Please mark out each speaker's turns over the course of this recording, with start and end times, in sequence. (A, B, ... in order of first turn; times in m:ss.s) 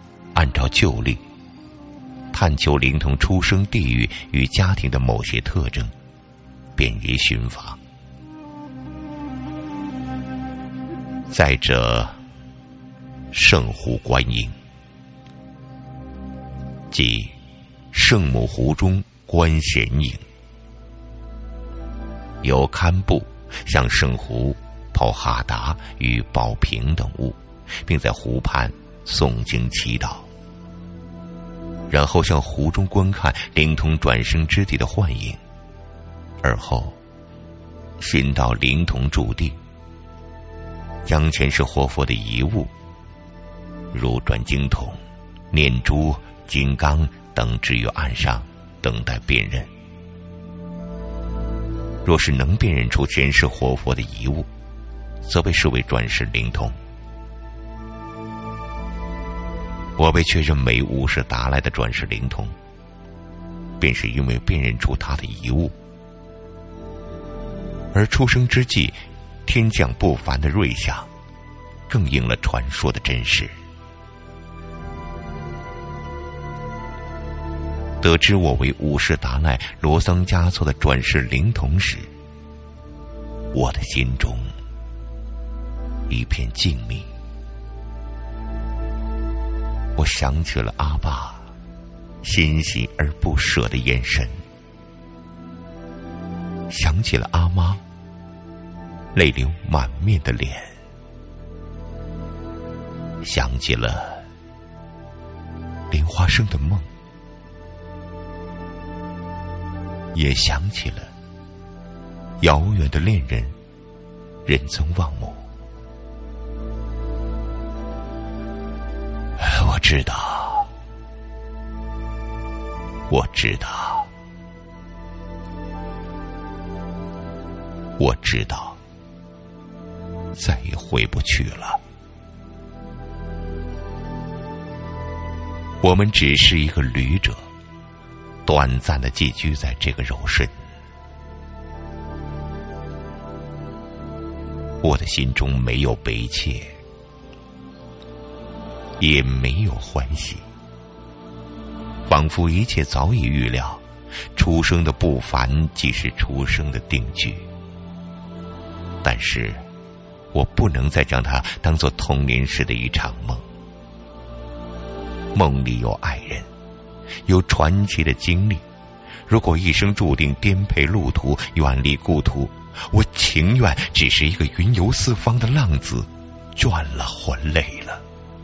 0:00.3-0:01.2 A
0:02.3-0:05.9 A
0:06.8-0:07.8 A
0:11.3-0:12.2 A
0:13.3-0:14.6 A
0:16.9-0:17.4 A
0:17.9-0:20.2 A
0:22.4-0:30.3 A
0:31.9-0:35.4 A
0:36.4-0:37.0 A
0:38.0-0:39.6 A
0:41.0-0:42.7 A
0:43.9-0:49.7 A
0:52.0-0:54.5 A
0:55.2-0:56.8 A
1:00.0-1:02.6 A
1:03.8-1:05.8 A
1:07.9-1:11.1 A
1:11.9-1:13.6 A
1:18.0-1:22.1 A
1:23.5-1:24.5 A
1:26.1-1:27.1 A
1:30.0-1:31.5 A
1:32.2-1:34.4 A
1:36.7-1:37.8 A
1:39.1-1:40.8 A
1:43.2-1:44.3 A
1:45.9-1:46.9 A
1:50.1-1:51.1 A
1:52.4-1:53.6 A
1:54.5-1:55.4 A
1:59.4-2:00.7 A
2:03.1-2:04.1 A
2:08.0-2:08.8 A
2:10.3-2:11.8 A
2:15.8-2:17.5 A
2:18.4-2:20.6 A
2:24.8-2:26.8 A
2:29.0-2:30.4 A
2:32.1-2:33.8 A
2:34.3-2:37.5 A
2:39.0-2:39.6 A
2:40.3-2:43.4 A
2:45.3-2:46.5 A
2:47.2-2:48.6 A
2:49.3-2:58.0 A